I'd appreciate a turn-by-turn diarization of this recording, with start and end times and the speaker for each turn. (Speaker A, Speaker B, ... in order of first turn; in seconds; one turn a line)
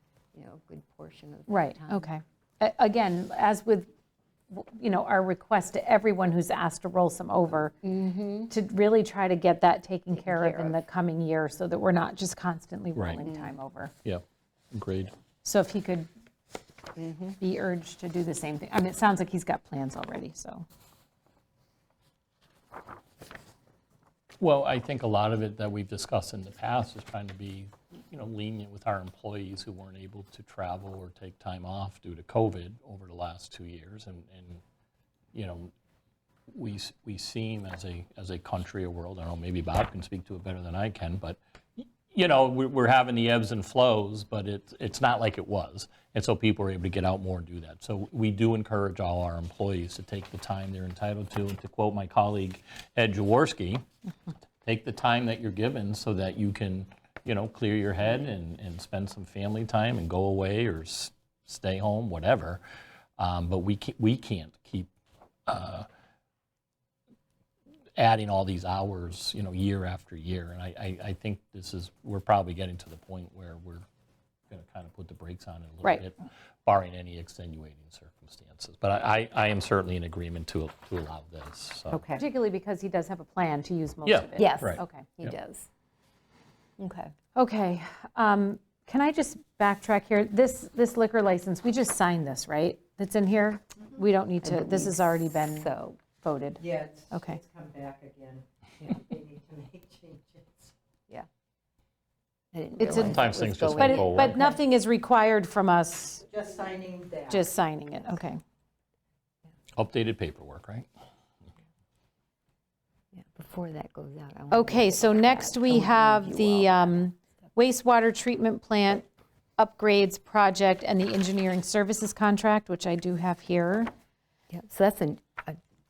Speaker A: 0.3-2.1
Speaker B: 1.5-3.9
Speaker B: 4.5-7.9
Speaker A: 7.8-8.5
Speaker B: 8.5-13.9
Speaker A: 10.1-10.8
Speaker C: 12.9-13.2
Speaker A: 13.2-13.5
Speaker C: 14.0-15.1
Speaker B: 15.4-16.1
Speaker A: 17.0-17.4
Speaker B: 17.4-20.6
Speaker C: 24.4-34.6
Speaker C: 35.3-35.7
Speaker C: 36.5-53.8
Speaker C: 54.6-62.6
Speaker C: 63.2-64.9
Speaker C: 65.5-65.8
Speaker C: 68.0-73.8
Speaker C: 74.5-82.0
Speaker A: 81.9-82.2
Speaker B: 82.1-85.1
Speaker C: 84.0-85.3
Speaker A: 84.4-85.7
Speaker A: 86.8-87.1
Speaker B: 87.3-97.4
Speaker A: 94.4-96.0
Speaker D: 96.6-100.7
Speaker A: 102.5-104.5
Speaker B: 102.8-106.2
Speaker C: 102.9-104.4
Speaker D: 106.3-107.5
Speaker B: 107.3-108.4
Speaker C: 109.7-110.9
Speaker A: 113.1-117.0
Speaker B: 114.5-119.0
Speaker B: 119.6-123.9
Speaker A: 124.5-125.6